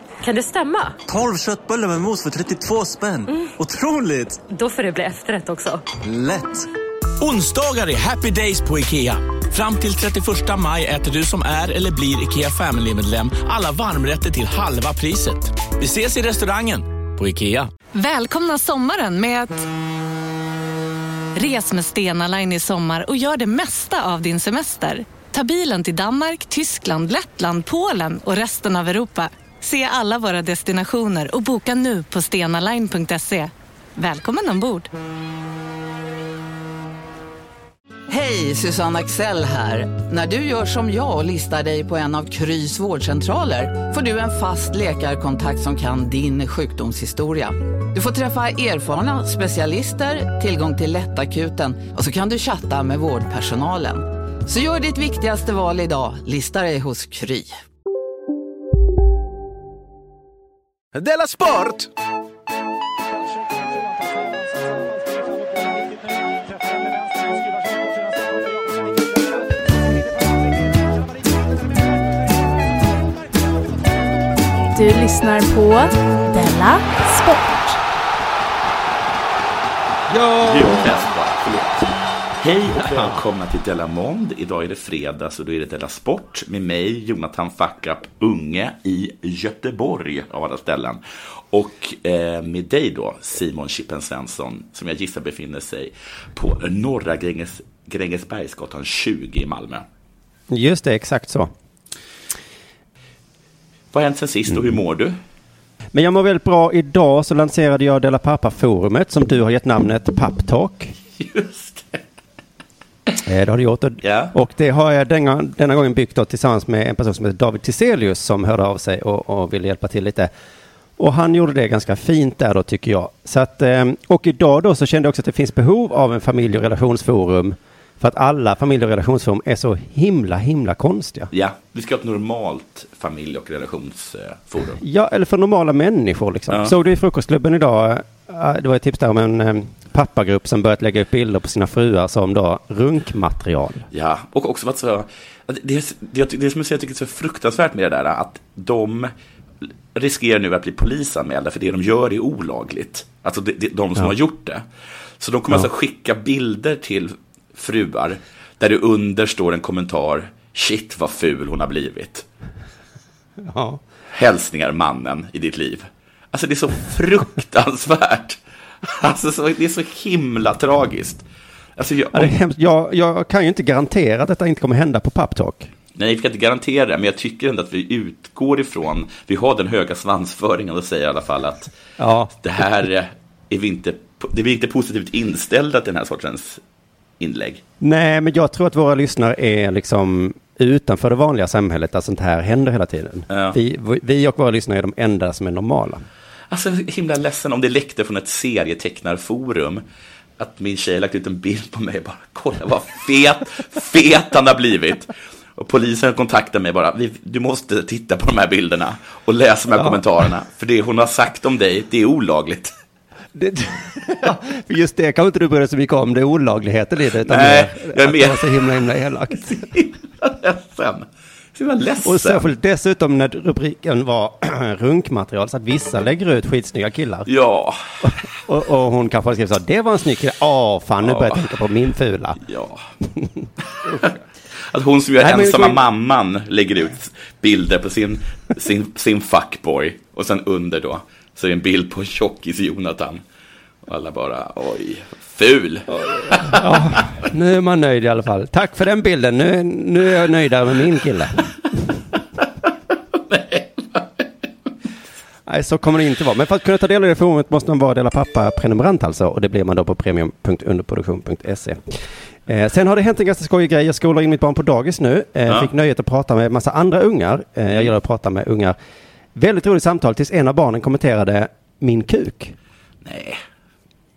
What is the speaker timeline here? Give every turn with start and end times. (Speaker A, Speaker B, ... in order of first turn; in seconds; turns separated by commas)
Speaker A: 0.2-1.0, Speaker B: 1.1-4.5, Speaker A: 4.5-5.8, Speaker B: 6.0-6.7, Speaker C: 7.2-17.7, Speaker D: 17.9-19.7, Speaker D: 21.3-34.9, Speaker E: 38.1-57.5, Speaker F: 74.7-77.8, Speaker G: 80.2-81.8, Speaker G: 82.4-99.8, Speaker H: 82.8-83.1, Speaker H: 100.5-101.5, Speaker G: 103.9-105.2, Speaker H: 105.9-110.9, Speaker G: 111.2-112.0, Speaker H: 113.2-120.3, Speaker G: 114.0-114.3, Speaker H: 121.0-131.3, Speaker G: 131.3-134.8, Speaker H: 134.8-143.8, Speaker G: 136.5-136.7, Speaker G: 143.9-149.1, Speaker G: 149.9-154.6, Speaker G: 155.2-162.2, Speaker H: 163.4-163.8, Speaker G: 164.1-171.2, Speaker G: 171.8-172.3, Speaker H: 172.1-175.7, Speaker G: 175.9-181.7, Speaker H: 182.0-182.3, Speaker G: 182.4-186.6, Speaker G: 187.2-187.6, Speaker H: 187.8-196.1, Speaker G: 193.3-193.6, Speaker G: 196.5-199.8, Speaker G: 200.4-212.7, Speaker H: 209.7-210.0, Speaker H: 213.3-219.7, Speaker G: 217.2-222.5, Speaker H: 222.0-227.3, Speaker G: 227.3-227.9, Speaker H: 228.0-232.4, Speaker G: 231.0-231.4, Speaker G: 232.4-232.8, Speaker H: 233.2-234.0, Speaker G: 233.7-243.2, Speaker H: 235.2-235.8, Speaker G: 243.8-247.0, Speaker H: 245.9-251.9, Speaker G: 253.3-254.2, Speaker H: 255.5-268.8, Speaker H: 269.3-272.6, Speaker G: 273.0-273.4